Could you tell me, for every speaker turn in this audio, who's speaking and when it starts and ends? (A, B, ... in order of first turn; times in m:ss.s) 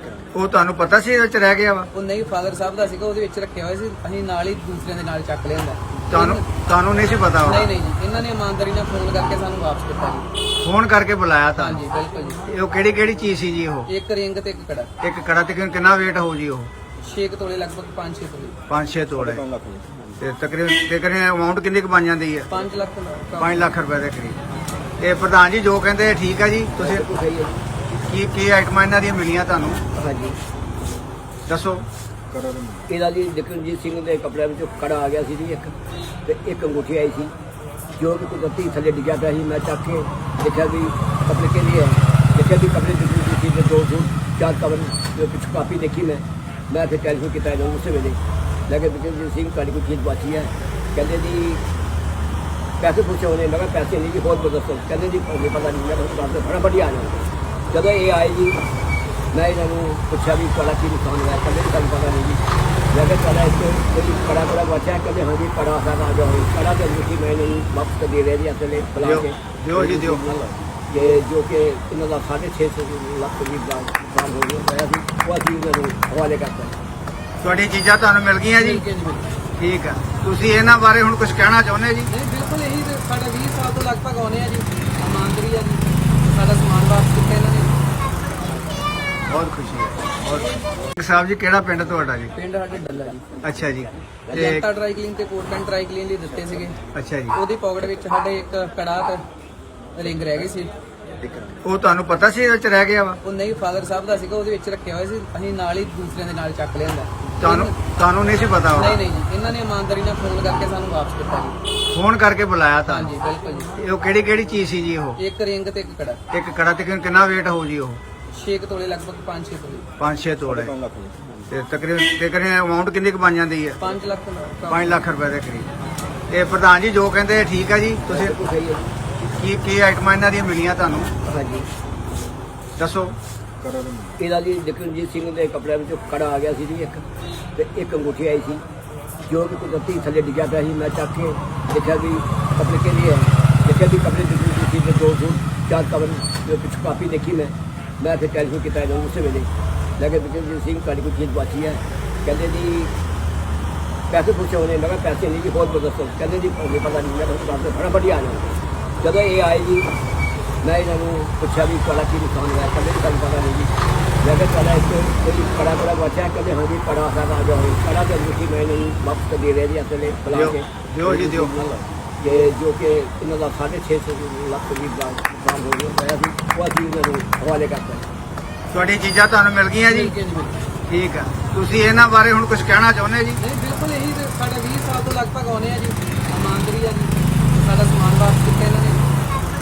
0:00.3-0:01.9 A
0:01.9-0:06.5 B
0:06.1-0:07.7 A
0:07.4-0:10.3 B
0:10.6-0:11.8 A
0:11.5-0:12.4 B
0:12.4-0:13.9 A
0:13.9-0:14.9 B
0:15.0-0:16.7 A
0:17.0-0:18.6 B
0:18.7-0:19.5 A
0:20.2-0:22.5 A
0:22.5-0:23.7 B
0:23.4-0:24.4 A
0:25.0-0:27.0 A
0:26.8-0:27.6 C
0:28.1-0:29.8 A
0:29.9-0:30.4 C
0:31.5-0:31.8 A
0:32.8-0:35.7 C
0:36.2-0:37.3 C
0:38.0-0:51.6 C
0:52.8-0:57.2 C
0:57.7-0:58.6 C
0:59.3-1:16.7 C
1:09.0-1:10.4 A
1:17.4-1:18.8 A
1:18.6-1:19.3 B
1:19.6-1:22.1 A
1:22.1-1:27.8 B
1:29.2-1:32.3 A
1:32.3-1:33.2 B
1:33.4-1:34.6 A
1:34.3-1:36.8 B
1:36.9-1:37.4 A
1:37.3-1:39.2 B
1:39.9-1:40.7 B
1:41.6-1:43.2 A
1:43.2-1:47.8 B
1:47.4-1:49.0 A
1:48.7-1:51.6 B
1:51.9-1:53.1 A
1:52.8-1:53.8 B
1:53.8-1:55.2 A
1:55.2-1:56.2 B
1:56.3-1:58.0 A
1:58.3-1:59.9 B
2:00.0-2:00.8 A
2:01.5-2:03.8 A
2:03.8-2:05.0 B
2:04.7-2:05.7 A
2:06.3-2:08.4 A
2:08.1-2:08.9 C
2:09.4-2:11.1 A
2:11.2-2:11.7 C
2:12.8-2:13.2 A
2:14.2-2:17.0 C
2:17.6-2:18.6 C
2:19.3-2:32.9 C
2:34.1-2:38.4 C
2:39.0-2:39.9 C
2:40.6-2:58.0 C
2:50.3-2:51.8 A
2:58.7-3:00.1 A
2:59.9-3:00.6 B
3:00.9-3:03.4 A
3:03.4-3:09.1 B